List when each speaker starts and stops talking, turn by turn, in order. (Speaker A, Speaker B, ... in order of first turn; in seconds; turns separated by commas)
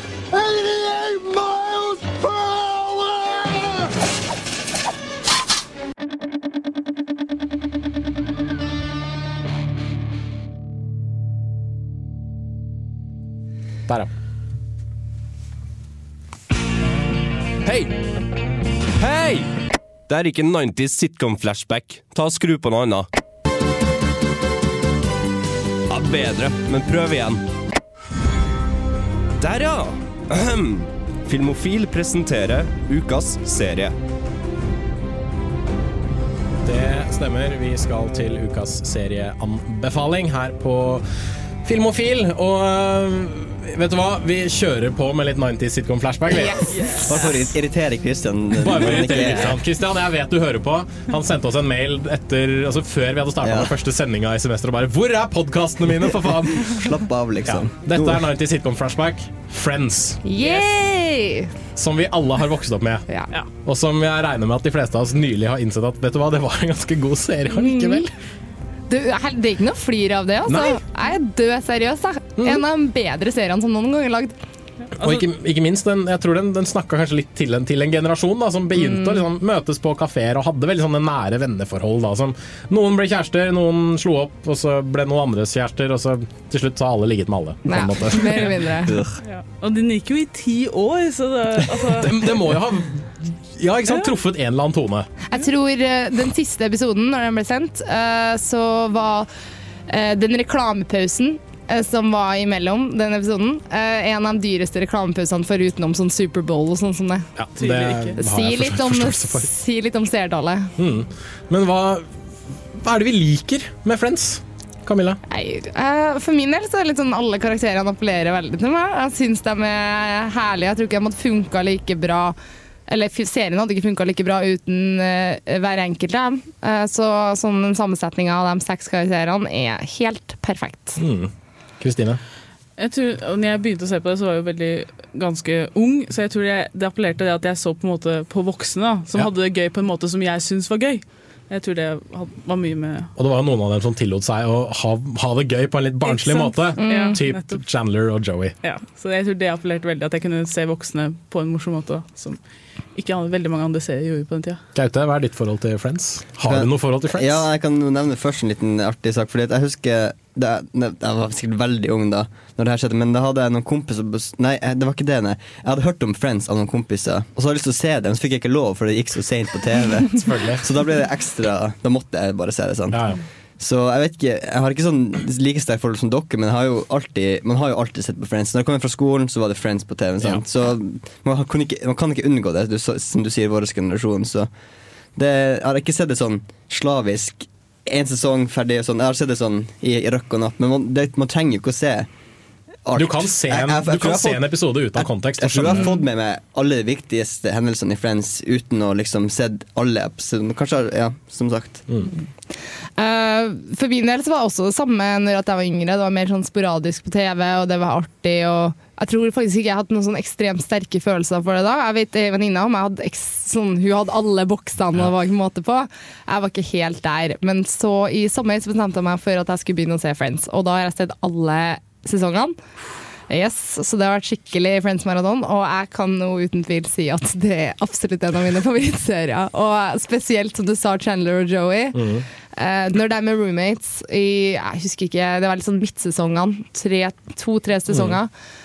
Speaker A: 0.3-3.7, Speaker B: 17.6-17.9, Speaker B: 19.0-19.5, Speaker B: 20.1-23.1, Speaker B: 25.9-27.4, Speaker B: 29.4-33.9, Speaker C: 36.6-41.0, Speaker C: 41.6-46.9, Speaker D: 46.4-47.0, Speaker E: 47.1-49.6, Speaker C: 48.6-56.8, Speaker E: 53.4-53.8, Speaker E: 56.6-58.3, Speaker C: 57.5-60.2, Speaker D: 60.2-61.5, Speaker C: 61.8-63.0, Speaker C: 63.6-68.1, Speaker D: 67.5-68.1, Speaker D: 68.9-74.4, Speaker C: 70.5-70.8, Speaker C: 72.4-72.6, Speaker F: 75.0-75.3, Speaker C: 75.0-88.9, Speaker D: 78.7-79.2, Speaker D: 87.7-88.9, Speaker F: 89.2-92.3, Speaker C: 91.9-95.1, Speaker D: 95.3-99.3, Speaker D: 99.9-107.3, Speaker C: 107.4-109.5, Speaker F: 107.6-108.2, Speaker D: 108.2-110.8, Speaker C: 110.8-112.1, Speaker C: 112.8-115.2, Speaker D: 115.3-122.4, Speaker D: 122.9-131.0, Speaker C: 131.0-132.2, Speaker F: 132.8-143.1, Speaker C: 143.2-148.6, Speaker F: 146.0-147.6, Speaker D: 146.8-147.2, Speaker F: 148.6-152.4, Speaker F: 152.9-154.6, Speaker C: 154.8-157.5, Speaker E: 156.4-173.0, Speaker C: 170.1-170.6, Speaker C: 172.9-173.2, Speaker E: 173.6-184.5, Speaker E: 185.2-192.1, Speaker E: 192.8-201.8, Speaker C: 193.0-196.0, Speaker D: 203.0-222.6, Speaker D: 223.3-238.3, Speaker C: 231.9-232.2, Speaker C: 237.9-238.2